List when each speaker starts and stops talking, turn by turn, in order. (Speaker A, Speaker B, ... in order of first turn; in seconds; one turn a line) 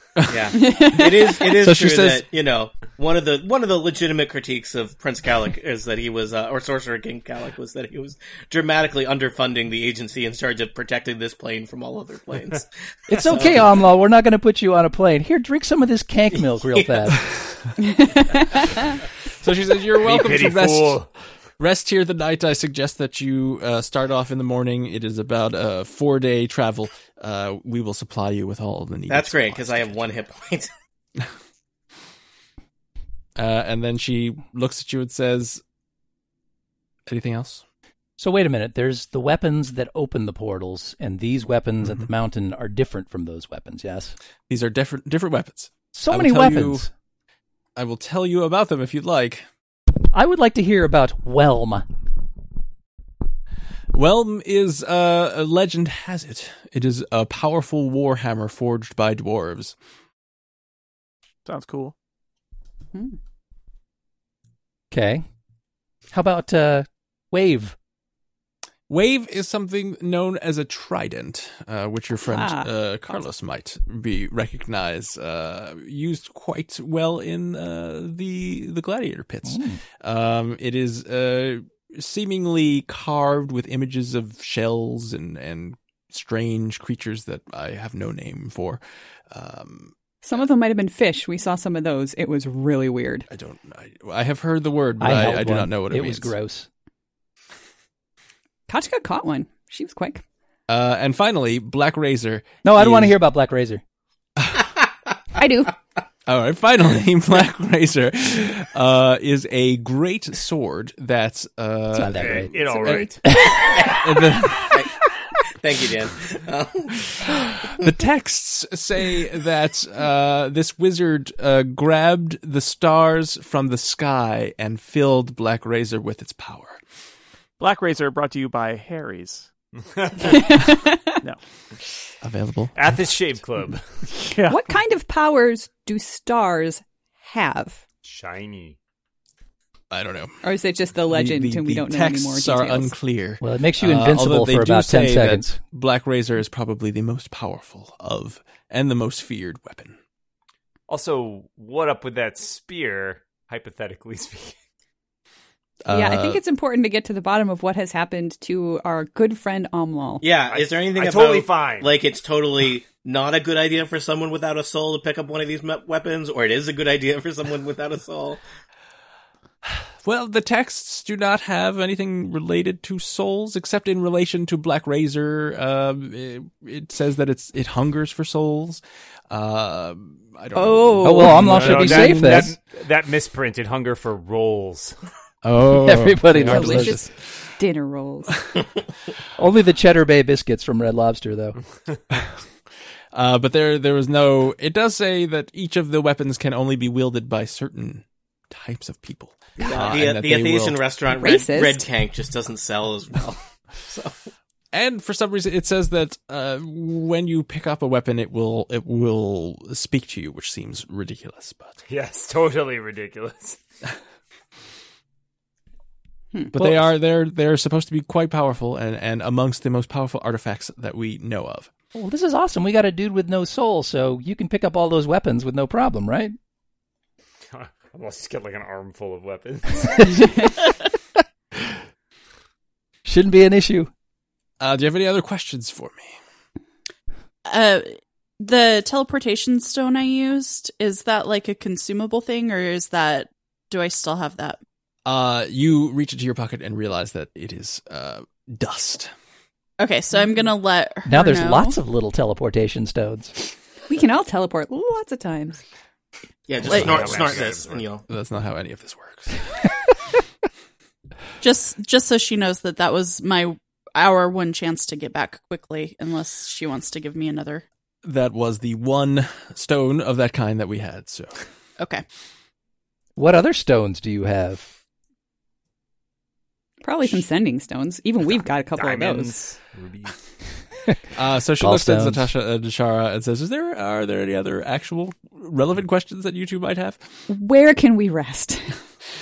Speaker A: 0.2-0.5
Speaker B: 0.3-13.7
Speaker C: 0.6-1.4
Speaker A: 1.3-2.3
Speaker D: 13.1-17.2
Speaker B: 16.3-17.1
Speaker C: 17.8-18.9
Speaker A: 19.4-21.0
Speaker E: 20.0-21.1
Speaker A: 21.6-30.0
Speaker B: 29.1-30.7
Speaker A: 33.4-35.6
Speaker A: 37.1-37.6
Speaker D: 38.2-44.1
Speaker A: 44.5-46.9
Speaker D: 46.0-46.9
Speaker A: 47.8-49.5
Speaker D: 50.1-51.9
Speaker A: 53.9-59.8
Speaker F: 61.5-62.0
Speaker D: 64.9-65.2
Speaker D: 66.1-67.8
Speaker A: 68.9-89.9
Speaker C: 72.2-72.7
Speaker D: 79.5-79.8
Speaker C: 90.2-93.3
Speaker A: 93.3-96.3
Speaker D: 95.0-96.7
Speaker C: 98.7-100.2
Speaker A: 100.7-103.2
Speaker D: 102.6-103.8
Speaker A: 104.4-104.7
Speaker C: 105.4-105.7
Speaker A: 106.3-112.5
Speaker D: 112.0-113.7
Speaker E: 112.2-113.2
Speaker C: 112.6-113.2
Speaker A: 113.9-114.8
Speaker B: 115.6-117.0
Speaker A: 117.2-126.8
Speaker F: 127.6-129.5
Speaker E: 129.8-130.4
Speaker C: 130.3-130.9
Speaker A: 132.2-133.0
Speaker E: 132.8-133.9
Speaker F: 134.2-134.7
Speaker C: 134.5-137.8
Speaker E: 138.0-138.8
Speaker A: 139.9-140.4
Speaker C: 140.4-142.9
Speaker A: 141.1-150.0
Speaker D: 143.4-145.6
Speaker E: 150.9-154.6
Speaker A: 155.8-156.4
Speaker C: 155.9-160.2
Speaker B: 160.2-168.4
Speaker E: 160.5-162.0
Speaker A: 170.0-182.5
Speaker G: 180.6-181.4
Speaker D: 181.0-182.6
Speaker E: 181.4-185.0
Speaker A: 185.4-187.1
Speaker D: 185.7-187.0
Speaker C: 186.4-188.4
Speaker D: 189.4-191.6
Speaker A: 193.1-200.8
Speaker B: 199.6-204.2
Speaker C: 201.2-201.8
Speaker A: 204.7-211.7
Speaker E: 211.9-213.6
Speaker A: 216.5-221.7
Speaker D: 221.9-226.3
Speaker E: 227.5-230.5
Speaker D: 233.1-233.9
Speaker A: 234.6-236.2
Speaker G: 237.5-244.6
Speaker A: 245.1-249.1
Speaker G: 249.8-251.8
Speaker D: 251.1-253.3
Speaker C: 253.9-255.6
Speaker B: 256.5-258.1
Speaker A: 256.6-257.2
Speaker E: 256.7-257.9
Speaker G: 256.7-257.0
Speaker A: 258.1-259.6
Speaker G: 261.4-267.6
Speaker A: 268.0-271.4
Speaker G: 271.8-272.0
Speaker D: 273.2-274.7
Speaker C: 276.8-279.4
Speaker E: 278.7-280.2
Speaker A: 281.1-287.0
Speaker D: 281.6-282.3
Speaker C: 287.3-288.8